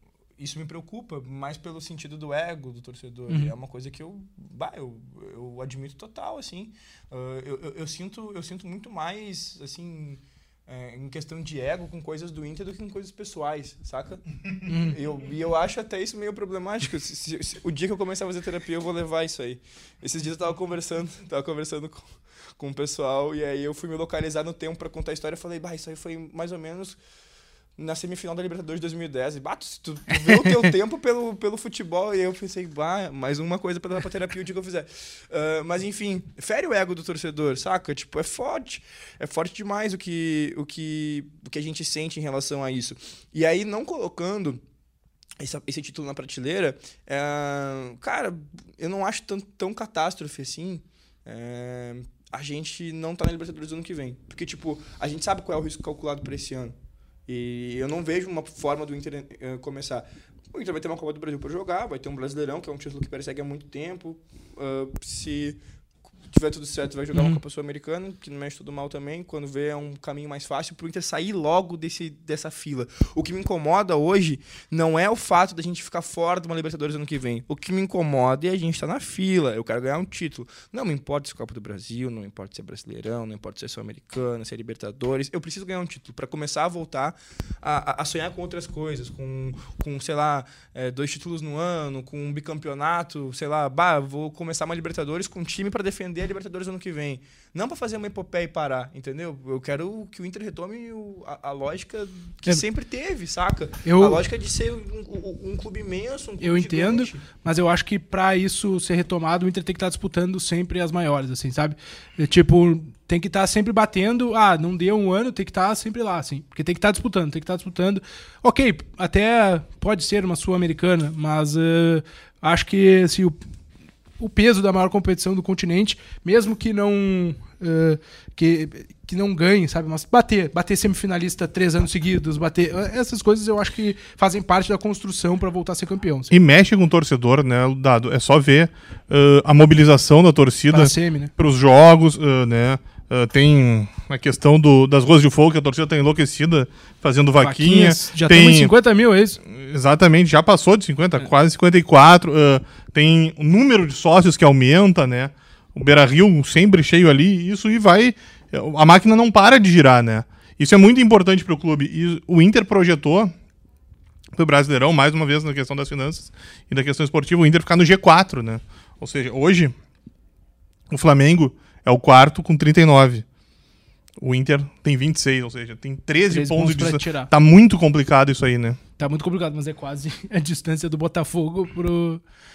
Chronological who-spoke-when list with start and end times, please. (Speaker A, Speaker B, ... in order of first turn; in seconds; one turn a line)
Speaker A: 0.4-27.0
Speaker B: 14.7-14.9
Speaker A: 27.8-44.6
Speaker A: 45.4-56.7
Speaker A: 57.3-65.6
Speaker A: 66.3-107.2
Speaker B: 67.1-67.4
Speaker B: 103.8-104.2
Speaker B: 106.4-123.3
Speaker B: 124.2-136.3
Speaker C: 136.3-148.7
Speaker B: 140.7-141.3
Speaker B: 147.4-149.4
Speaker C: 149.4-163.3
Speaker C: 164.3-169.7
Speaker C: 170.9-173.2
Speaker C: 174.2-178.8
Speaker B: 176.3-177.3
Speaker B: 179.0-182.2